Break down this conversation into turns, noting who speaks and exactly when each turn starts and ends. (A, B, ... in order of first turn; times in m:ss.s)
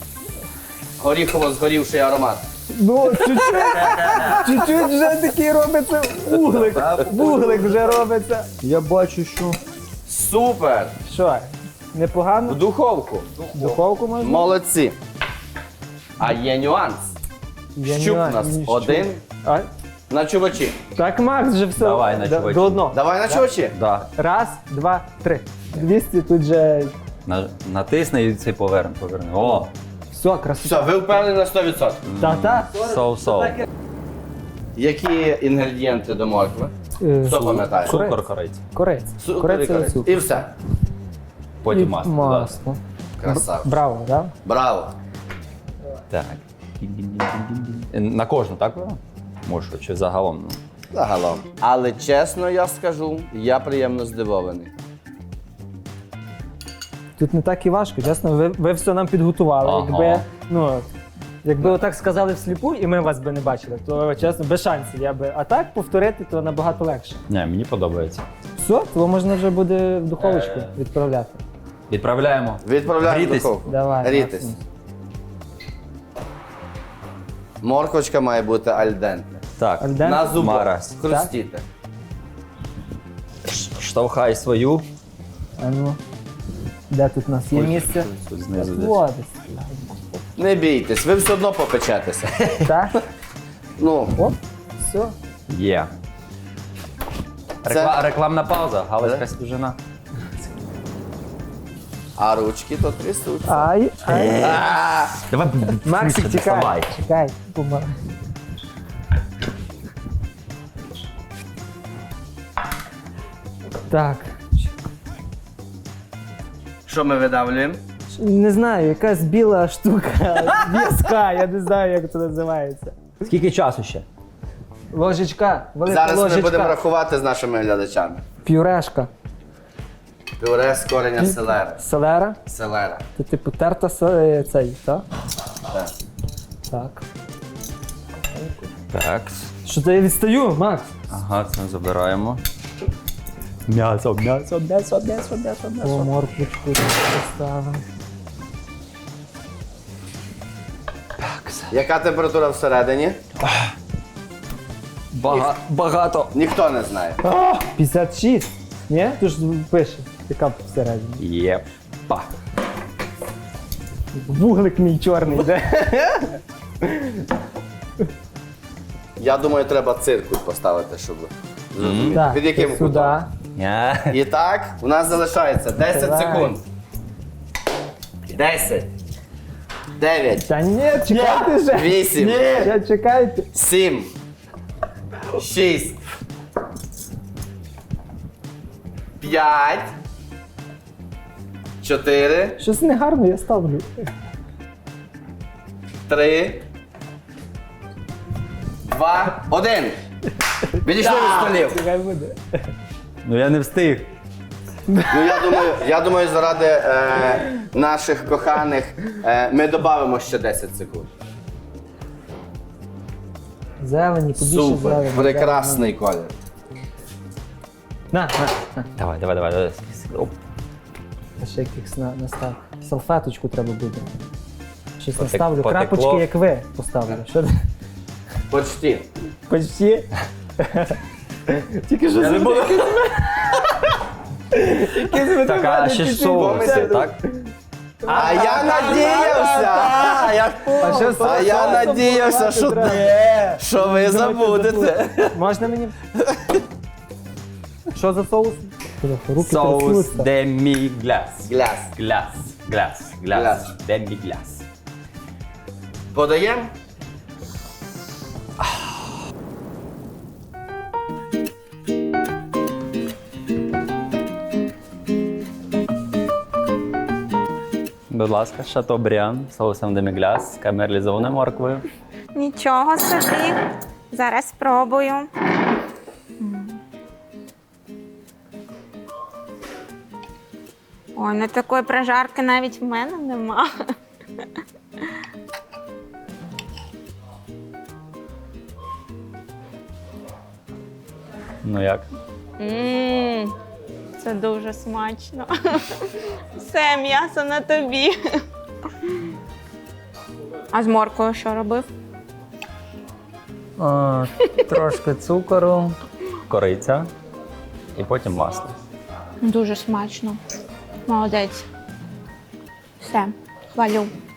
0:01.0-0:02.5 A
0:02.7-0:08.5 B
0:03.3-0:04.3 A
0:03.7-0:04.7 C
0:06.6-0:07.8 C
0:08.6-0:09.6 C
0:10.1-0:11.0 A
0:11.0-0:12.6 B
0:12.5-0:13.5 A
0:13.4-0:13.8 C
0:13.5-0:14.5 B
0:14.2-0:15.0 A
0:16.2-0:17.2 A
0:17.8-0:19.7 B
0:17.8-0:19.2 A
0:20.1-0:20.8 A
0:21.0-0:23.5 B
0:21.8-0:22.9 C
0:22.9-0:23.8 A
0:23.7-0:24.1 C
0:24.2-0:26.9 B
0:27.3-0:29.7 C
0:30.1-0:31.0 B
0:30.6-0:32.1 A
0:32.0-0:33.6 C
0:32.2-0:32.8 B
0:34.8-0:36.7 A
0:37.0-0:38.2 B
0:37.2-0:38.0 A
0:37.3-0:38.6 C
0:38.7-0:40.4 B
0:39.2-0:40.5 A
0:41.6-0:42.6 C
0:41.7-0:44.3 B
0:43.2-0:43.7 A
0:44.4-0:45.0 A
0:46.1-0:50.6 C
0:50.9-0:54.7 A
0:57.2-1:00.9 B
0:59.6-1:00.3 C
1:01.4-1:07.2 B
1:07.3-1:08.2 C
1:08.6-1:11.4 B
1:10.2-1:10.7 C
1:11.9-1:13.5 C
1:12.6-1:14.5 A
1:13.6-1:14.6 B
1:17.6-1:19.4 A
1:19.6-1:21.0 C
1:19.8-1:20.4 B
1:20.0-1:21.6 A
1:21.0-1:21.3 B
1:23.4-1:24.9 C
1:25.6-1:26.0 B
1:26.9-1:30.2 B
1:27.5-1:29.0 C
1:30.4-1:32.3 A
1:32.4-1:32.7 C
1:32.6-1:33.0 B
1:33.8-1:34.2 A
1:34.2-1:35.2 B
1:35.5-1:35.9 C
1:37.6-1:39.8 C
1:37.7-1:38.0 A
1:42.2-1:43.7 A
1:43.4-1:44.6 B
1:44.1-1:46.9 C
1:45.8-1:47.9 B
1:53.9-1:54.7 B
1:56.9-1:57.8 A
1:58.1-2:02.9 B
2:03.2-2:04.1 C
2:04.9-2:06.8 B
2:05.8-2:08.2 A
2:08.4-2:09.1 B
2:10.4-2:11.8 A
2:11.2-2:12.4 B
2:12.5-2:13.0 A
2:13.2-2:15.0 B
2:16.7-2:17.0 B
2:18.4-2:18.7 B
2:18.9-2:19.5 C
2:19.6-2:20.9 B
2:21.1-2:22.4 C
2:23.7-2:26.1 C
2:25.8-2:27.8 B
2:31.2-2:31.8 C
2:31.7-2:33.2 A
2:33.4-2:33.7 C
2:35.1-2:36.4 C
2:36.3-2:37.2 A
2:37.2-2:41.2 B
2:41.2-2:42.3 C
2:44.1-2:47.2 B
2:49.2-2:53.2 A
2:51.8-2:52.2 C
2:52.1-2:53.3 B
2:53.6-2:54.2 C
2:54.1-2:56.6 A
2:55.8-2:56.6 B
2:58.3-2:58.9 A
3:00.0-3:02.5 A
3:00.4-3:03.5 B
3:02.2-3:02.7 C
3:03.5-3:04.1 A
3:05.4-3:06.0 A
3:09.2-3:10.0 A
3:11.8-3:12.6 A
3:12.6-3:14.1 B
3:16.1-3:16.6 A
3:18.9-3:20.0 A
3:20.8-3:21.8 A
3:20.8-3:22.4 B
3:23.2-3:24.1 C
3:24.9-3:25.7 B
3:25.1-3:31.1 A
3:33.8-3:35.9 B
3:34.4-3:36.3 A
3:38.1-3:38.9 B
3:39.0-3:40.4 C
3:41.4-3:44.1 B
3:45.0-3:47.6 B
3:45.2-3:46.3 C
3:48.5-3:49.1 A
3:49.5-3:51.0 B
3:51.5-3:53.7 B
3:52.2-3:52.8 A
3:52.2-3:53.0 C
3:54.5-3:57.5 B
3:55.2-3:57.2 C
3:56.3-3:57.0 A
3:58.1-4:01.1 C
3:58.1-4:03.1 B
3:58.1-4:05.4 A
4:03.0-4:03.6 C
4:03.7-4:05.9 B
4:06.2-4:06.6 A
4:07.9-4:10.3 B
4:09.4-4:14.6 C
4:11.4-4:11.9 A
4:13.3-4:13.7 A
4:16.1-4:16.7 A
4:28.1-4:31.8 C
4:32.3-4:33.6 D
4:34.1-4:35.3 D
4:36.4-4:36.8 D
4:41.2-4:43.7 D
4:51.6-4:52.1 C
4:52.6-4:53.6 D
4:54.2-4:55.8 D
4:56.6-4:58.2 D
5:00.7-5:01.9 D
5:03.8-5:06.0 B
5:06.5-5:07.1 C
5:08.0-5:08.8 C
5:09.4-5:10.4 D
5:11.1-5:11.6 D
5:13.0-5:14.1 D